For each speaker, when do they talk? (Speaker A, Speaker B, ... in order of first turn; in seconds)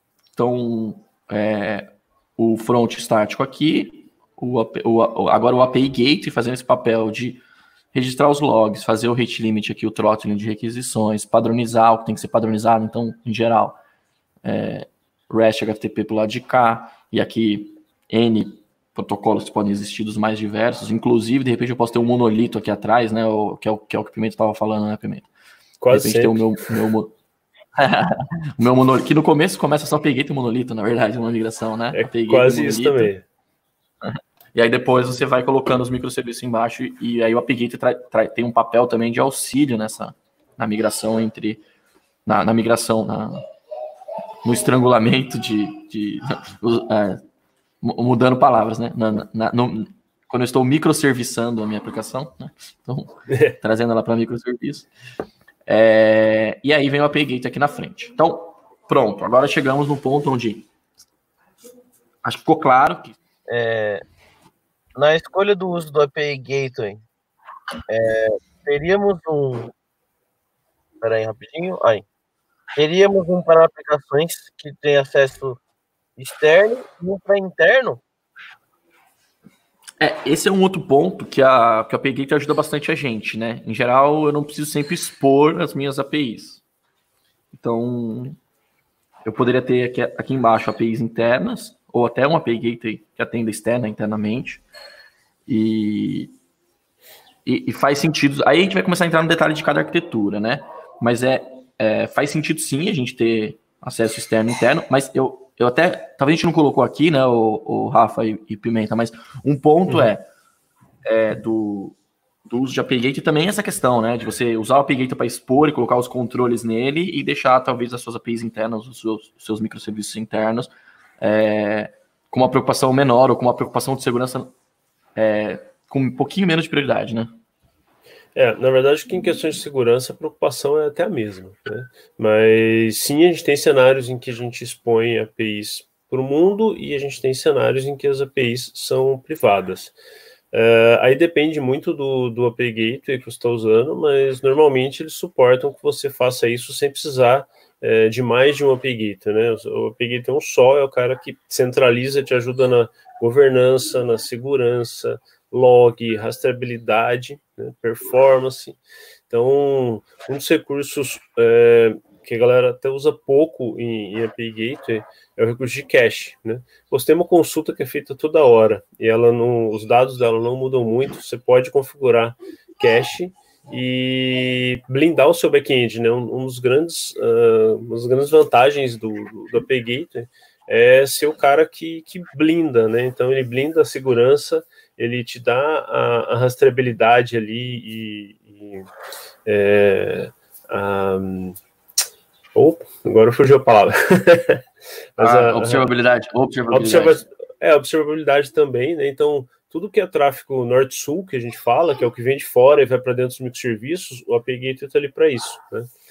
Speaker A: 0.4-7.4, 7.9-13.8, 14.4-25.3, 25.9-27.1, 27.8-33.1, 34.0-41.6, 42.3-43.4, 44.4-47.2, 47.8-54.9, 55.7-60.7, 62.2-63.2, 80.0-86.6, 87.5-88.4, 89.2-94.6, 95.5-96.3, 97.5-110.2, 111.0-112.0, 112.5-124.5, 125.2-127.3, 195.2-197.2
Speaker B: 25.8-26.4, 31.9-33.2, 53.3-53.5, 128.3-139.9, 140.5-158.8, 159.3-188.9, 189.5-191.6, 192.6-194.6, 195.2-195.9, 196.7-205.9
Speaker C: 63.5-64.0, 65.0-67.0, 67.9-69.7, 71.0-72.0, 72.8-75.6, 76.2-78.0